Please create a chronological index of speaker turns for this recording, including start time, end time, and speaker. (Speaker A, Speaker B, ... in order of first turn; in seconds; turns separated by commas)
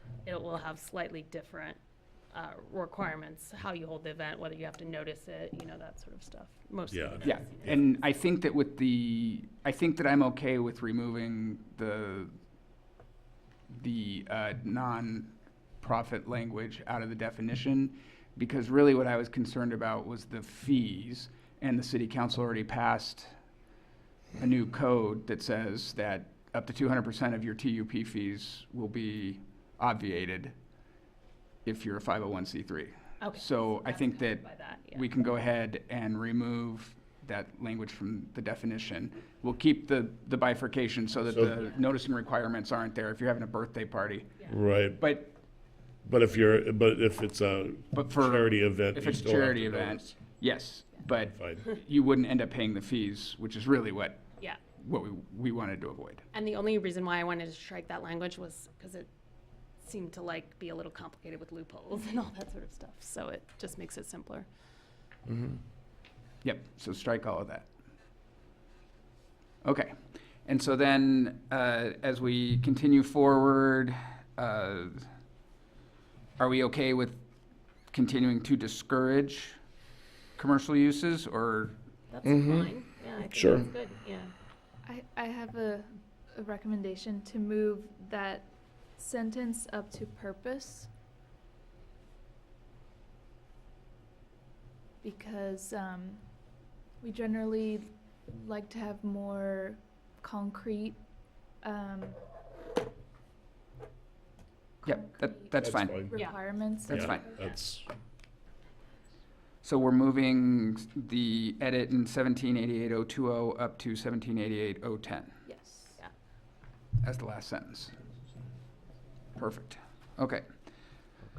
Speaker A: 0.2-1.8, Speaker A: 2.3-7.8, Speaker B: 6.9-7.8, Speaker C: 7.2-12.3, Speaker C: 13.7-23.3, Speaker C: 24.4-30.5, Speaker C: 31.6-44.4, Speaker A: 33.2-35.1, Speaker A: 41.4-41.8, Speaker B: 44.5-45.0, Speaker C: 45.0-45.3, Speaker B: 46.0-50.2, Speaker C: 47.9-54.2, Speaker B: 51.1-51.7, Speaker C: 54.8-56.2, Speaker A: 56.3-59.1, Speaker A: 59.8-64.5, Speaker B: 65.3-65.6, Speaker C: 66.4-67.7, Speaker C: 69.6-75.1, Speaker C: 76.4-77.2, Speaker C: 77.9-79.6, Speaker C: 80.3-81.8, Speaker A: 82.1-84.3, Speaker B: 82.2-82.7, Speaker B: 83.3-83.7, Speaker D: 84.8-90.9, Speaker D: 95.0-102.2, Speaker C: 104.8-107.4, Speaker D: 104.8-107.2, Speaker B: 105.6-106.3, Speaker B: 106.9-107.8, Speaker C: 109.6-115.3, Speaker D: 115.5-116.0, Speaker C: 117.0-117.9, Speaker C: 119.3-120.5